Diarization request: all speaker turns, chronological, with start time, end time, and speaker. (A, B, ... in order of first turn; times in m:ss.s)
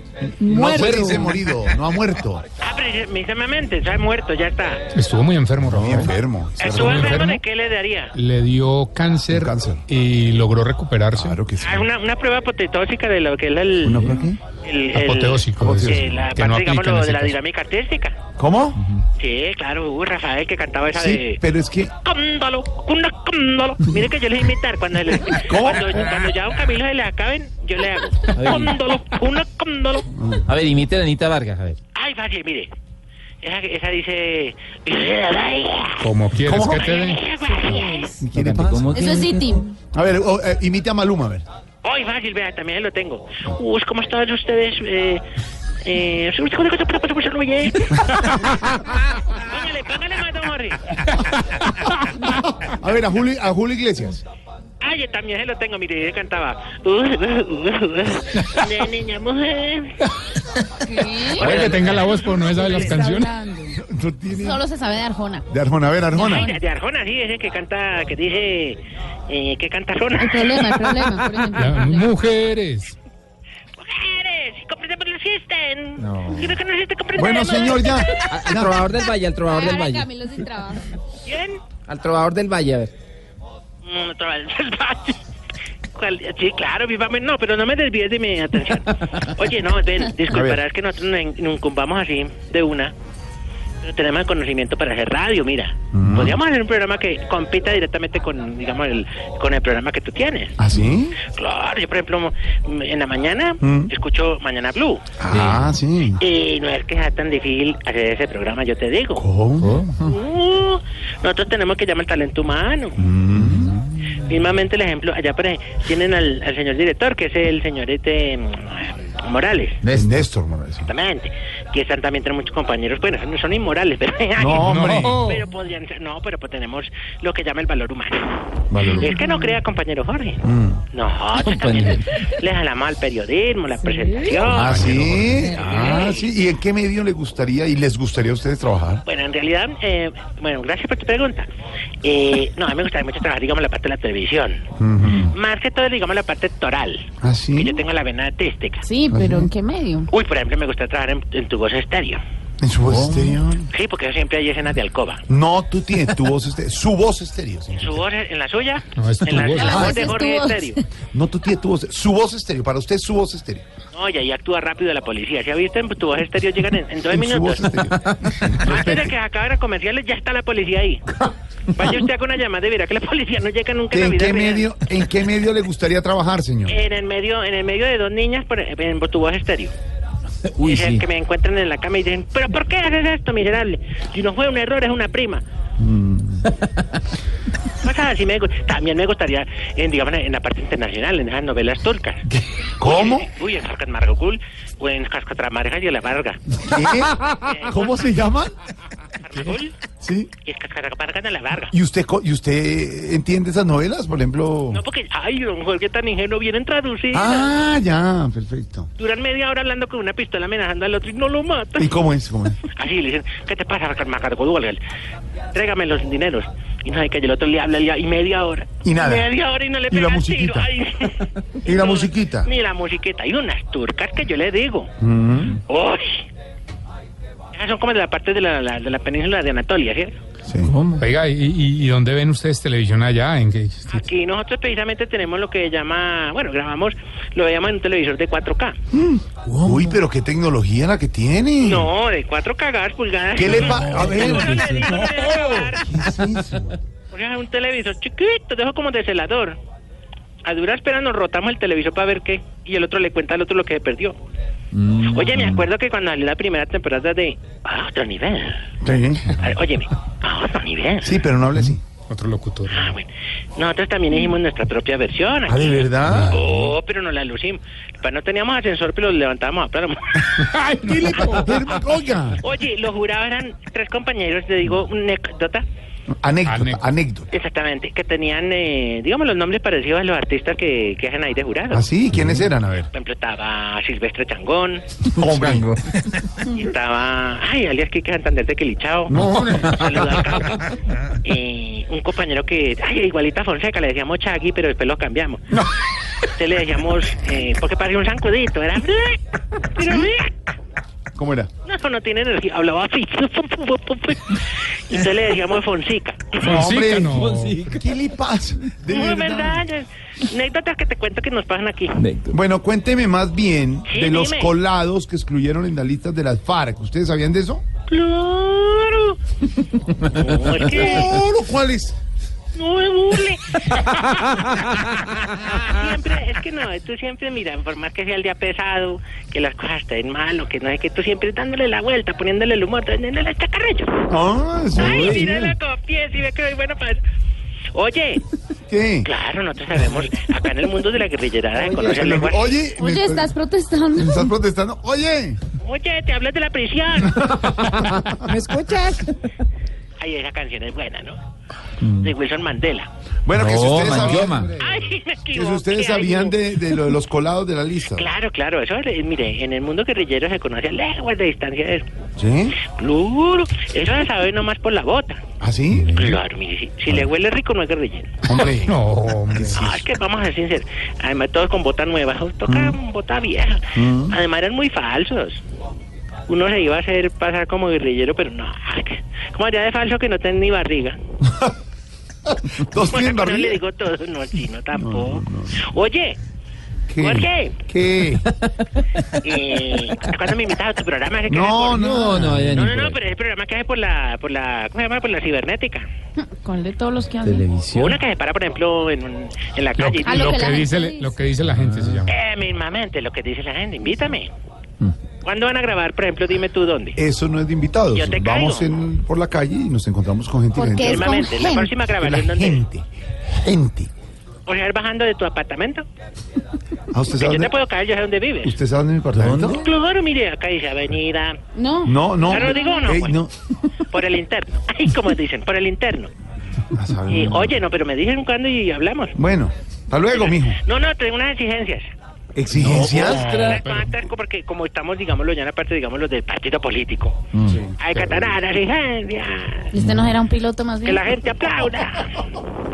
0:00.4-0:01.3 A
0:00.4-0:02.4 B
0:00.8-0:01.4 C
0:02.6-0:04.8 D
0:04.9-0:06.1 E
0:05.6-0:07.1 B
0:06.6-0:08.1 D
0:06.6-0:07.4 E
0:08.1-0:11.4 E
0:09.3-0:09.8 B
0:11.1-0:11.9 B
0:11.6-0:18.2 D
0:13.8-0:14.4 B
0:14.9-0:17.4 E
0:15.6-0:16.1 B
0:18.4-0:18.8 B
0:19.2-0:21.4 D
0:20.9-0:21.9 B
0:22.0-0:30.1 D
0:25.3-0:26.0 B
0:28.3-0:28.8 C
0:30.1-0:30.5 B
0:30.4-0:31.8 C
0:31.9-0:32.7 D
0:33.4-0:38.2 D
0:36.0-0:37.2 E
0:36.4-0:36.8 B
0:38.1-0:41.4 B
0:38.3-0:39.4 C
0:38.9-0:39.6 F
0:41.8-0:45.2 D
0:45.8-0:48.4 D
0:49.1-0:50.9 D
0:51.3-0:51.8 E
0:52.6-0:54.2 B
0:54.8-1:00.0 D
1:00.8-1:01.5 F
1:01.2-1:03.4 E
1:01.3-1:01.7 D
1:01.4-1:02.2 C
1:02.6-1:02.9 D
1:02.6-1:03.8 A
1:03.7-1:04.6 B
1:04.3-1:05.4 F
1:05.5-1:06.5 B
1:06.2-1:11.4 D
1:06.2-1:06.6 F
1:10.2-1:12.2 F
1:11.5-1:13.0 E
1:13.8-1:18.5 D
1:16.0-1:16.6 C
1:17.1-1:18.9 B
1:18.2-1:20.1 C
1:19.5-1:20.8 F
1:21.2-1:21.6 D
1:21.9-1:22.9 C
1:23.8-1:25.2 D
1:25.9-1:32.9 D
1:30.3-1:30.6 B
1:33.8-1:40.5 D
1:35.9-1:36.4 B
1:40.6-1:41.2 B
1:41.2-1:45.0 D
1:43.6-1:43.9 B
1:45.2-1:46.2 B
1:45.3-1:45.7 C
1:46.2-1:49.3 D
1:49.2-1:49.9 B
1:49.6-1:50.0 C
1:50.0-1:53.0 D
1:53.0-1:53.8 B
1:53.4-1:53.7 C
1:54.1-1:59.8 D
1:59.8-2:00.2 C
1:59.8-2:00.9 B
2:00.9-2:16.3 D
2:04.4-2:05.2 B
2:04.6-2:05.4 E
2:08.7-2:09.2 B
2:10.4-2:10.8 B
2:11.4-2:12.2 C
2:14.4-2:15.5 E
2:14.5-2:19.0 B
2:19.0-2:21.5 D
2:22.0-2:24.6 D
2:24.8-2:25.3 B
2:25.1-2:28.9 D
2:27.2-2:27.8 B
2:28.8-2:30.1 F
2:29.1-2:29.5 B
2:30.1-2:32.2 D
2:32.6-2:33.7 B
2:32.9-2:33.3 C
2:33.7-2:35.2 D
2:35.3-2:38.0 B
2:37.7-2:40.8 D
2:38.9-2:39.9 E
2:39.4-2:40.7 F
2:39.8-2:40.1 B
2:41.1-2:43.6 B
2:43.9-2:47.8 D
2:47.1-2:49.1 B
2:48.6-2:51.1 D
2:51.7-2:54.7 D
2:53.9-2:56.8 B
2:56.7-2:59.7 D
3:00.5-3:01.0 C
3:00.6-3:05.4 D
3:05.8-3:06.4 B
3:07.8-3:12.2 D
3:12.3-3:13.3 B
3:12.8-3:18.2 D
3:16.6-3:18.5 B
3:19.1-3:19.7 D
3:20.0-3:20.3 B
3:20.4-3:21.7 D
3:21.7-3:24.8 B
3:24.7-3:27.5 D
3:27.1-3:28.9 B
3:29.0-3:32.0 D
3:31.8-3:32.6 B
3:32.6-3:34.8 D
3:35.5-3:44.9 D
3:38.8-3:39.3 B
3:39.9-3:40.7 B
3:41.6-3:42.5 B
3:45.0-3:45.6 B
3:45.7-3:46.2 D
3:47.5-3:50.2 D
3:50.5-3:50.7 B
3:50.6-3:51.0 C
3:51.0-3:54.0 E
3:53.9-3:58.8 D
3:58.9-4:01.9 B
3:59.5-4:00.0 C
4:01.6-4:05.9 D
4:03.3-4:06.8 B
4:03.6-4:04.7 C
4:07.1-4:09.6 D
4:10.4-4:14.2 D
4:14.8-4:15.6 C
4:15.0-4:18.7 D
4:18.8-4:19.5 B
4:19.3-4:21.2 D
4:21.0-4:21.8 B
4:22.1-4:22.9 E
4:22.7-4:30.4 D
4:25.5-4:26.4 B
4:30.4-4:31.6 E
4:30.8-4:32.4 B
4:32.4-4:35.6 D
4:36.2-4:37.3 B
4:36.4-4:36.8 E
4:37.3-4:41.9 D
4:41.7-4:42.9 B
4:42.2-4:42.4 C
4:42.9-4:44.8 D
4:45.1-4:45.7 B
4:45.2-4:45.7 C
4:46.5-4:55.5 D
4:49.1-4:49.8 B
4:56.4-5:00.4 D
5:01.1-5:01.5 B
5:01.6-5:06.4 D
5:06.4-5:07.8 E
5:06.4-5:09.6 B
5:07.1-5:07.9 C
5:08.9-5:12.0 D
5:12.0-5:12.4 C
5:12.3-5:17.6 B
5:13.9-5:14.5 D
5:17.9-5:19.2 D
5:20.0-5:21.2 D
5:20.4-5:21.9 B
5:22.5-5:34.0 D
5:34.1-5:35.5 B
5:34.7-5:37.0 D
5:37.7-5:38.2 D
5:38.7-5:39.1 B
5:39.0-5:42.6 D
5:41.7-5:43.3 B
5:42.8-5:44.2 F
5:44.0-5:45.4 B
5:45.6-5:47.3 D
5:47.1-5:48.3 B
5:47.5-5:49.1 C
5:50.0-5:51.2 D
5:51.8-5:52.9 D
5:53.2-5:58.1 B
5:53.3-5:54.5 C
5:54.6-5:56.7 D
5:57.9-6:01.9 D
6:02.2-6:02.6 B
6:02.6-6:05.2 D
6:05.4-6:06.0 B
6:05.9-6:08.1 D
6:08.2-6:08.8 B
6:08.6-6:09.6 E
6:09.3-6:09.8 B
6:09.5-6:15.4 D
6:12.5-6:12.8 B
6:13.7-6:14.2 B
6:16.3-6:21.0 D
6:21.2-6:21.6 B
6:22.3-6:23.6 B
6:22.8-6:26.2 D
6:24.7-6:25.6 B
6:26.9-6:28.3 B
6:27.0-6:27.6 D
6:29.0-6:35.9 D
6:31.3-6:32.6 B
6:31.7-6:33.0 C
6:36.2-6:37.4 F
6:37.2-6:38.0 C
6:37.7-6:40.5 D
6:39.8-6:42.1 E
6:40.0-6:41.2 F
6:41.4-6:42.1 C
6:42.1-6:44.3 D
6:45.2-6:47.0 D
6:47.0-6:53.9 B
6:47.9-6:48.7 D
6:50.5-6:51.7 F
6:50.8-6:52.6 D
6:54.4-6:55.8 D
6:56.9-6:57.5 B
6:57.1-6:58.5 D
6:58.4-6:59.6 B
6:59.1-6:59.6 C
6:59.6-7:01.4 D
7:01.5-7:02.9 F
7:01.8-7:03.5 B
7:02.2-7:03.2 D
7:03.9-7:06.1 D
7:06.7-7:07.5 B
7:07.1-7:09.1 D
7:09.2-7:10.6 B
7:10.1-7:11.9 D
7:12.3-7:13.3 B
7:12.6-7:13.6 C
7:12.8-7:17.2 D
7:12.9-7:14.0 E
7:17.3-7:17.7 B
7:17.8-7:19.7 D
7:17.9-7:18.3 E
7:19.7-7:21.0 F
7:19.8-7:20.1 B
7:20.8-7:22.4 D